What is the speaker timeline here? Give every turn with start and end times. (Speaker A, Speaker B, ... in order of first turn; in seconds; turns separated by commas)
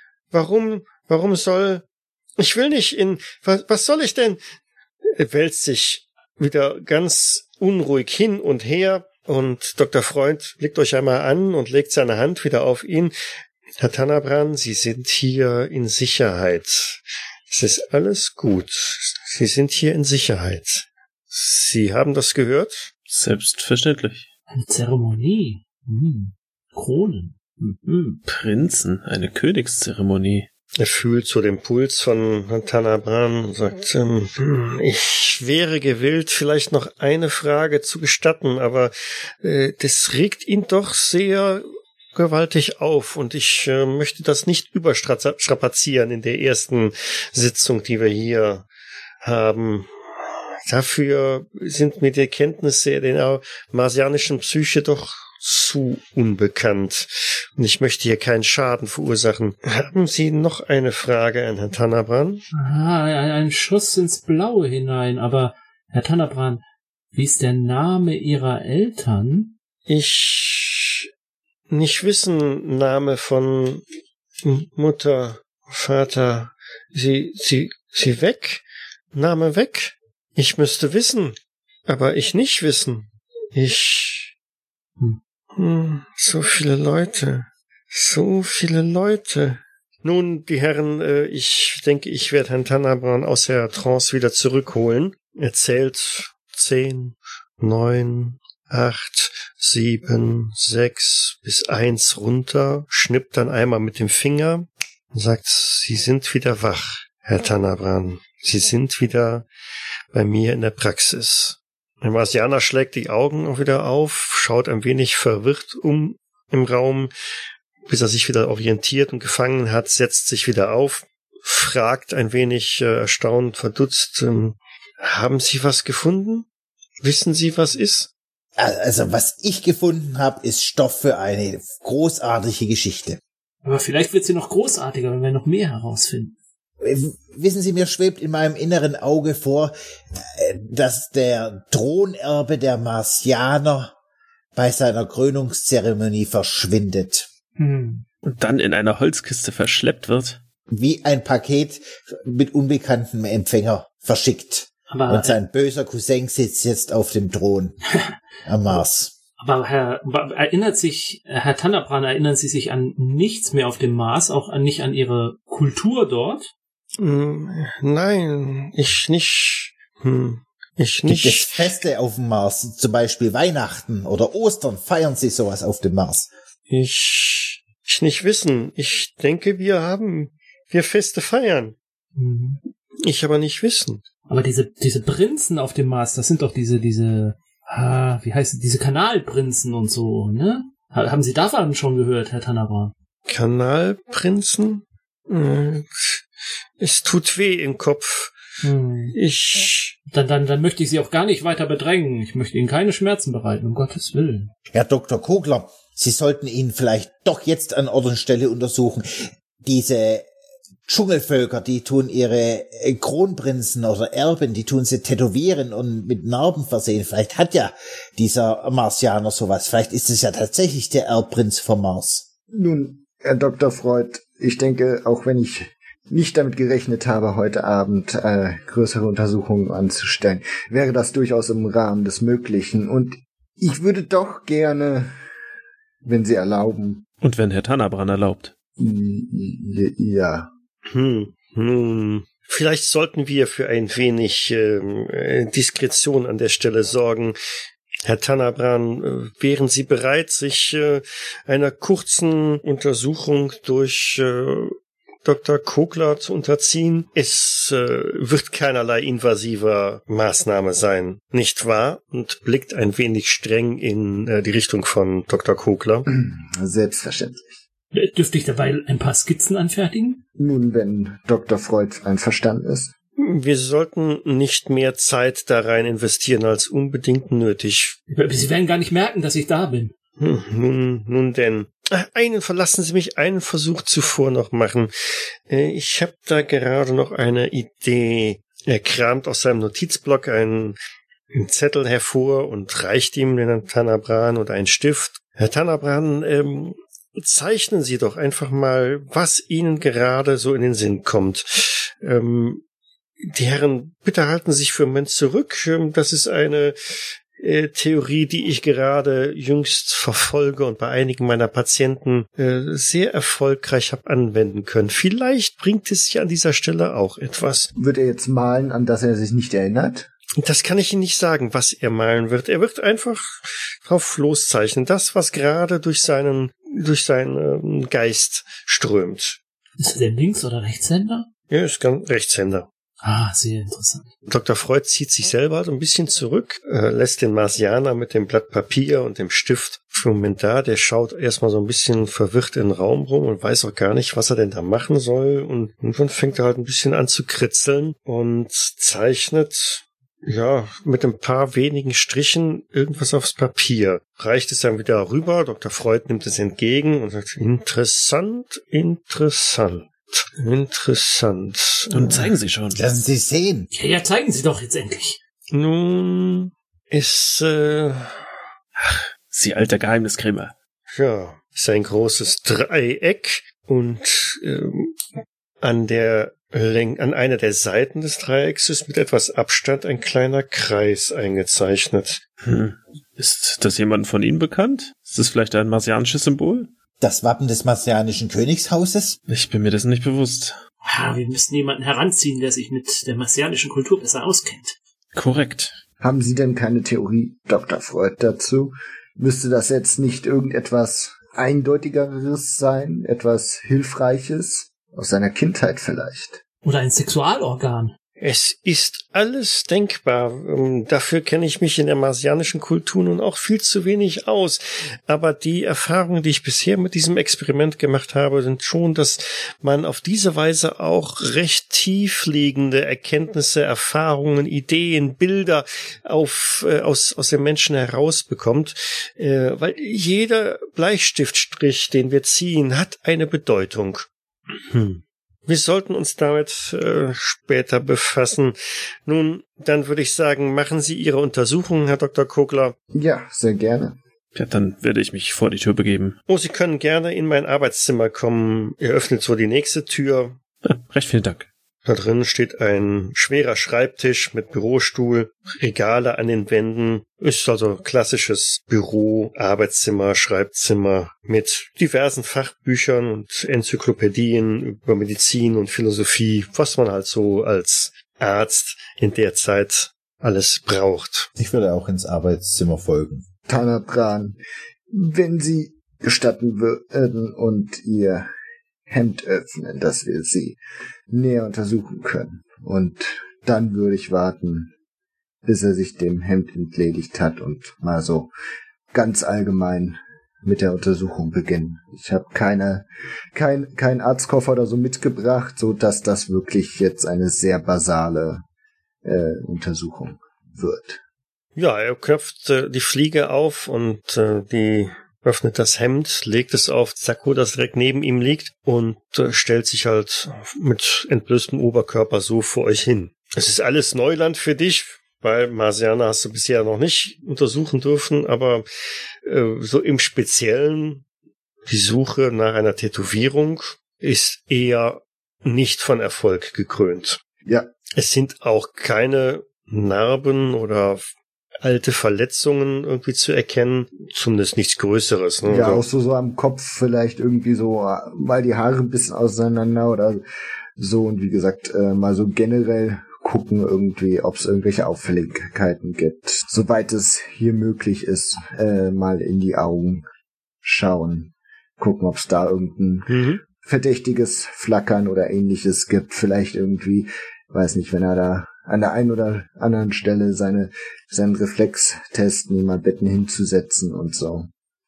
Speaker A: 0.3-1.8, Speaker A: 2.4-4.4, Speaker A: 5.1-13.1, Speaker A: 13.8-22.9, Speaker B: 23.1-24.2, Speaker C: 24.5-28.2, Speaker B: 28.3-30.5, Speaker A: 30.8-48.7, Speaker A: 49.2-49.9, Speaker A: 50.7-62.4, Speaker C: 62.5-66.6, Speaker C: 67.1-69.5, Speaker A: 69.9-71.0, Speaker A: 71.7-73.8, Speaker A: 74.4-81.3, Speaker A: 81.9-84.3, Speaker A: 85.5-109.5, Speaker A: 110.1-117.1, Speaker A: 117.9-126.5, Speaker A: 127.0-128.1, Speaker D: 128.6-133.2, Speaker C: 133.6-136.3, Speaker D: 136.8-143.9, Speaker D: 144.6-147.3, Speaker C: 147.6-148.0, Speaker B: 148.2-150.4, Speaker D: 150.7-157.8, Speaker C: 154.9-155.4, Speaker D: 158.4-159.1, Speaker C: 159.4-166.5, Speaker A: 167.0-171.6, Speaker D: 171.0-176.3, Speaker A: 176.7-181.7, Speaker C: 182.1-182.6, Speaker A: 183.0-184.0, Speaker C: 184.3-192.9, Speaker A: 193.3-196.2, Speaker A: 196.8-198.3, Speaker C: 198.6-199.2, Speaker A: 199.1-199.9, Speaker C: 200.1-204.5, Speaker D: 204.7-210.3, Speaker D: 210.9-222.2, Speaker E: 222.5-235.1, Speaker E: 236.0-237.0, Speaker B: 237.2-238.5, Speaker E: 238.8-240.5, Speaker A: 240.9-247.4, Speaker A: 248.1-266.0, Speaker E: 266.1-267.6, Speaker C: 267.9-270.2, Speaker E: 270.4-272.9, Speaker A: 273.2-277.9, Speaker C: 278.1-279.9, Speaker A: 280.2-284.9, Speaker A: 285.5-290.8, Speaker A: 291.3-302.6, Speaker A: 303.2-306.7, Speaker A: 307.4-317.7, Speaker E: 317.8-320.1, Speaker A: 320.4-329.4, Speaker C: 329.8-331.3, Speaker A: 331.5-332.7, Speaker C: 333.0-334.1, Speaker A: 334.2-362.3, Speaker B: 361.9-362.8, Speaker D: 362.7-363.7, Speaker C: 363.7-365.2, Speaker A: 365.5-368.1, Speaker B: 368.8-370.5, Speaker A: 370.9-374.9, Speaker A: 375.6-382.2, Speaker B: 382.4-386.7, Speaker D: 387.0-389.2, Speaker B: 389.3-390.6, Speaker C: 390.8-394.8, Speaker B: 395.1-395.7, Speaker E: 396.0-406.4, Speaker C: 406.6-407.9, Speaker A: 408.2-434.1, Speaker A: 434.6-438.5, Speaker A: 439.1-442.7, Speaker E: 442.9-444.0, Speaker B: 444.3-446.2, Speaker A: 446.3-450.4, Speaker B: 450.6-451.5, Speaker A: 451.8-471.3, Speaker D: 471.4-473.2, Speaker E: 473.5-474.4, Speaker E: 474.9-478.3, Speaker E: 478.9-480.6, Speaker E: 481.1-484.7, Speaker E: 485.4-488.3, Speaker E: 488.9-498.4, Speaker E: 499.0-501.0, Speaker A: 501.6-518.6, Speaker A: 519.2-521.0, Speaker A: 521.7-527.2, Speaker A: 528.0-531.1, Speaker A: 531.6-535.8, Speaker E: 535.4-540.2, Speaker E: 540.8-550.0, Speaker E: 550.6-564.5, Speaker A: 553.1-553.4